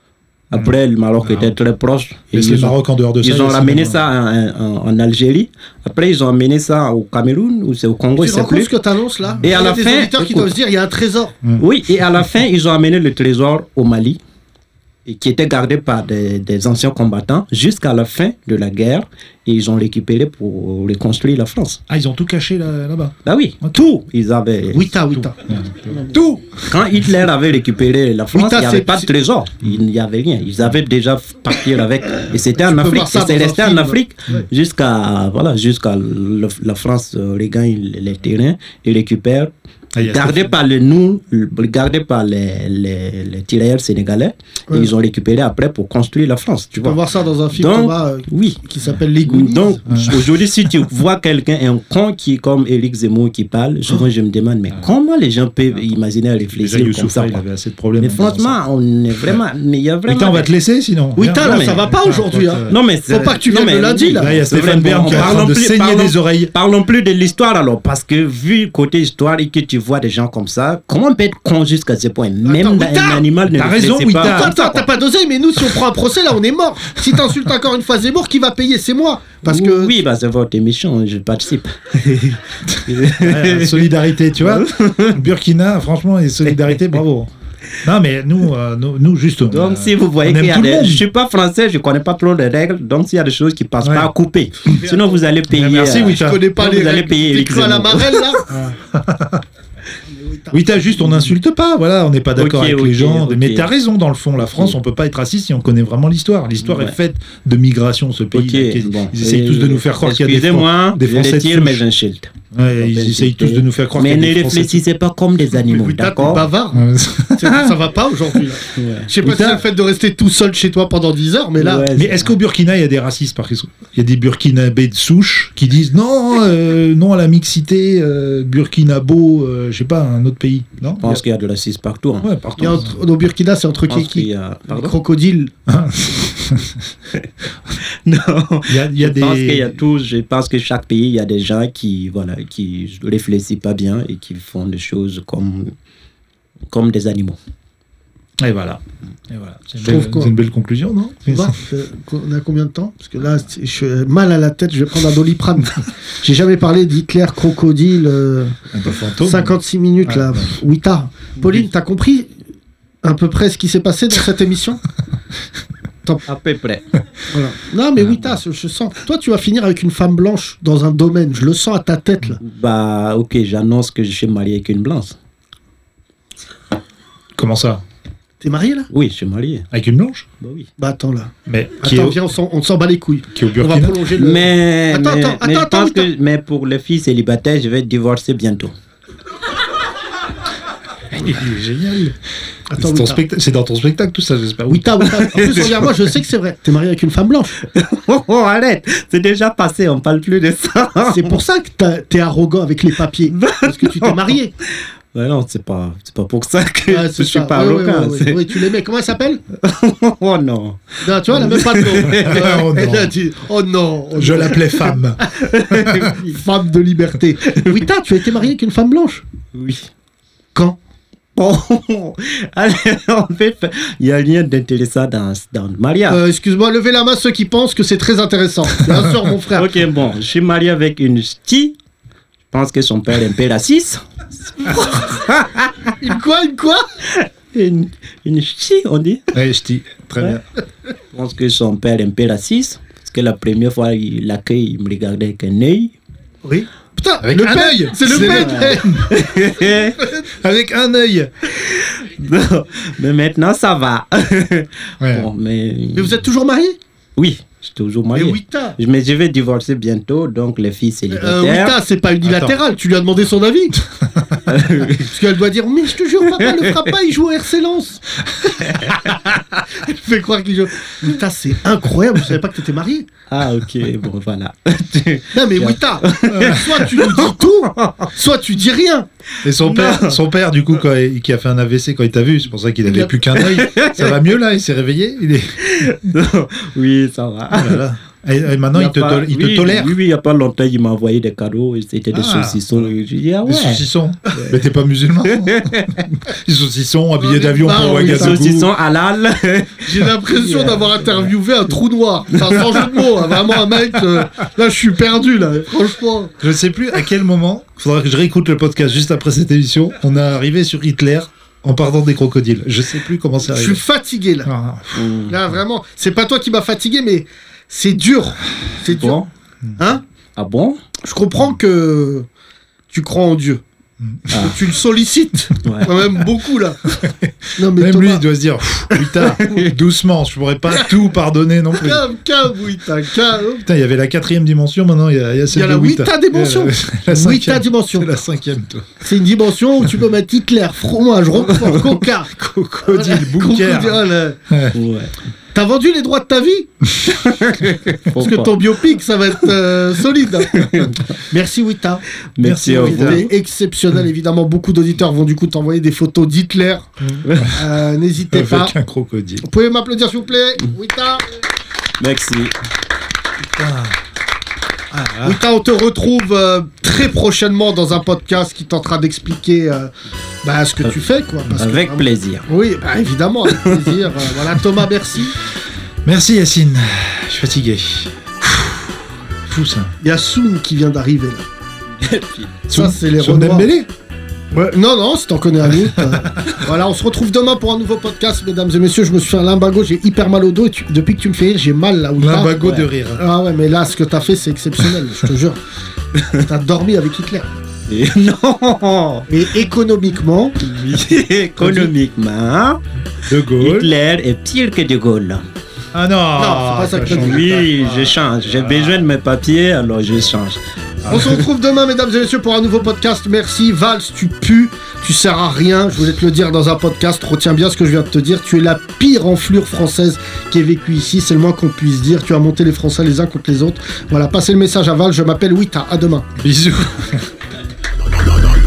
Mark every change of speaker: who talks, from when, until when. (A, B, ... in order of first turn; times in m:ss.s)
0:00.5-0:08.7 A
0:00.5-0:01.6 B
0:02.3-0:04.1 B
0:08.2-0:11.3 C
0:09.4-0:10.5 A
0:11.6-0:14.2 A
0:15.0-0:21.8 A
0:21.9-0:23.8 B
0:23.2-0:24.9 A
0:24.7-0:25.4 C
0:25.1-0:26.2 B
0:25.9-0:26.4 C
0:26.7-0:47.0 A
0:28.3-0:29.1 C
0:32.6-0:34.0 C
0:40.0-0:40.6 B
0:46.8-0:50.1 C
0:47.5-0:48.6 A
0:49.2-0:57.4 A
0:49.9-0:50.2 B
0:56.6-0:58.6 B
0:58.0-1:00.5 A
0:59.1-0:59.4 B
1:00.1-1:02.8 B
1:01.2-1:04.4 C
1:01.4-1:02.0 A
1:02.7-1:14.8 A
1:04.2-1:06.5 B
1:12.4-1:13.3 C
1:13.5-1:14.8 B
1:14.2-1:20.0 C
1:19.4-1:25.2 A
1:22.7-1:27.3 B
1:27.8-1:31.0 B
1:29.5-1:38.3 A
1:33.8-1:34.1 B
1:34.6-1:35.3 C
1:35.5-1:36.4 B
1:36.1-1:38.4 C
1:38.5-1:39.4 B
1:40.1-1:41.3 C
1:40.5-1:51.8 B
1:42.4-1:43.7 A
1:46.6-1:47.0 A
1:48.3-1:56.5 A
1:52.5-1:54.8 B
1:55.7-2:01.9 C
1:56.7-1:57.8 B
1:58.7-1:59.6 A
2:01.6-2:02.4 A
2:01.9-2:11.2 B
2:11.0-2:12.3 A
2:12.2-2:13.0 B
2:12.6-2:15.5 C
2:13.9-2:15.0 A
2:15.7-2:16.8 B
2:17.8-2:25.8 A
2:18.7-2:19.8 B
2:26.7-2:27.4 A
2:28.4-2:31.6 B
2:29.8-2:30.3 C
2:31.3-2:38.6 C
2:38.7-2:40.6 B
2:39.2-2:42.3 C
2:43.0-2:44.8 C
2:46.1-2:46.8 A
2:47.3-2:52.4 C
2:48.0-2:48.4 B
2:52.4-2:55.2 A
2:57.4-2:57.8 B
2:58.4-2:58.9 C
2:58.9-2:59.7 A
2:59.7-3:00.3 B
3:00.4-3:00.7 A
3:00.8-3:06.1 C
3:01.5-3:02.2 B
3:03.3-3:04.1 B
3:04.1-3:08.7 A
3:11.1-3:12.2 B
3:12.7-3:13.2 C
3:12.7-3:16.0 B
3:14.7-3:17.6 C
3:15.3-3:15.8 A
3:17.6-3:21.4 A
3:21.1-3:24.5 C
3:23.3-3:24.3 A
3:25.1-3:28.6 A
3:26.9-3:29.4 C
3:29.6-3:32.7 A
3:31.0-3:35.0 C
3:32.1-3:33.1 B
3:34.2-3:36.1 B
3:35.2-3:36.4 A
3:36.1-3:39.2 C
3:37.5-3:37.8 A
3:39.5-3:39.9 A
3:41.4-3:46.2 A
3:46.1-3:49.7 C
3:49.5-3:51.8 A
3:52.5-3:56.0 A
3:56.0-3:56.8 C
3:57.1-3:59.3 A
3:59.3-4:00.4 B
4:01.1-4:05.9 A
4:06.4-4:09.1 C
4:07.2-4:09.1 B
4:08.1-4:10.0 A
4:10.2-4:11.3 B
4:11.5-4:16.2 A
4:15.0-4:15.3 B
4:15.9-4:16.8 C
4:17.2-4:21.8 A
4:18.1-4:18.8 C
4:21.1-4:23.8 C
4:22.2-4:22.6 B
4:24.0-4:24.5 B
4:24.5-4:25.1 A
4:24.9-4:28.9 C
4:26.3-4:26.9 A
4:28.6-4:29.6 A
4:29.8-4:33.1 C
4:33.3-4:38.1 A
4:35.3-4:39.1 C
4:36.3-4:36.8 B
4:39.4-4:46.1 B
4:39.5-4:40.2 A
4:42.9-4:43.1 C
4:43.3-4:44.3 A
4:45.6-4:47.8 A
4:47.5-4:50.0 B
4:48.7-4:54.6 A
4:52.1-4:52.9 B
4:53.4-4:58.7 B
4:55.3-4:56.0 A
4:57.2-4:58.4 C
4:58.0-5:01.3 A
4:59.8-5:06.4 C
5:02.5-5:03.4 A
5:06.4-5:13.8 B
5:13.5-5:14.5 C
5:14.4-5:15.1 B
5:15.0-5:15.3 A
5:15.3-5:19.2 C
5:18.8-5:19.3 A
5:19.8-5:20.0 C
5:20.4-5:20.8 A
5:21.0-5:22.3 C
5:22.9-5:23.6 C
5:24.0-5:24.5 B
5:24.3-5:26.8 C
5:24.3-5:24.6 A
5:25.6-5:26.0 A
5:26.9-5:32.0 B
5:27.6-5:28.3 C
5:29.2-5:29.7 A
5:31.8-5:33.7 C
5:33.6-5:39.0 B
5:35.5-5:38.1 C
5:39.0-5:44.4 C
5:41.5-5:41.9 A
5:42.3-5:44.8 B
5:44.7-5:45.1 A
5:45.5-5:46.7 C
5:47.0-5:48.6 A
5:48.2-5:52.0 C
5:50.4-5:51.1 A
5:52.4-5:53.3 A
5:52.4-5:53.3 B
5:52.6-5:56.9 C
5:57.0-5:57.6 B
5:57.2-5:57.6 A
5:57.5-5:58.8 C
5:58.3-5:59.4 B
5:59.4-6:01.2 C
6:02.0-6:02.5 A
6:03.4-6:04.0 B
6:04.9-6:05.4 B
6:05.2-6:09.9 C
6:10.4-6:15.4 C
6:11.5-6:12.5 A
6:13.5-6:13.9 A
6:16.0-6:19.9 B
6:20.0-6:21.4 C
6:22.0-6:22.6 A
6:22.7-6:23.9 B
6:22.7-6:23.7 C
6:24.5-6:35.6 C
6:26.0-6:26.4 B
6:32.2-6:33.2 B
6:32.6-6:32.9 A
6:36.2-6:36.4 A
6:36.4-6:37.5 C
6:37.9-6:39.3 A
6:39.3-6:40.6 C
6:40.6-6:42.8 A
6:41.6-6:41.9 C
6:43.2-6:43.9 B
6:43.6-6:45.4 A
6:45.9-6:47.6 B
6:46.4-6:48.1 C
6:47.1-6:51.2 A
6:48.5-6:49.0 B
6:51.0-6:51.4 B
6:51.1-7:06.3 C
7:06.4-7:07.3 B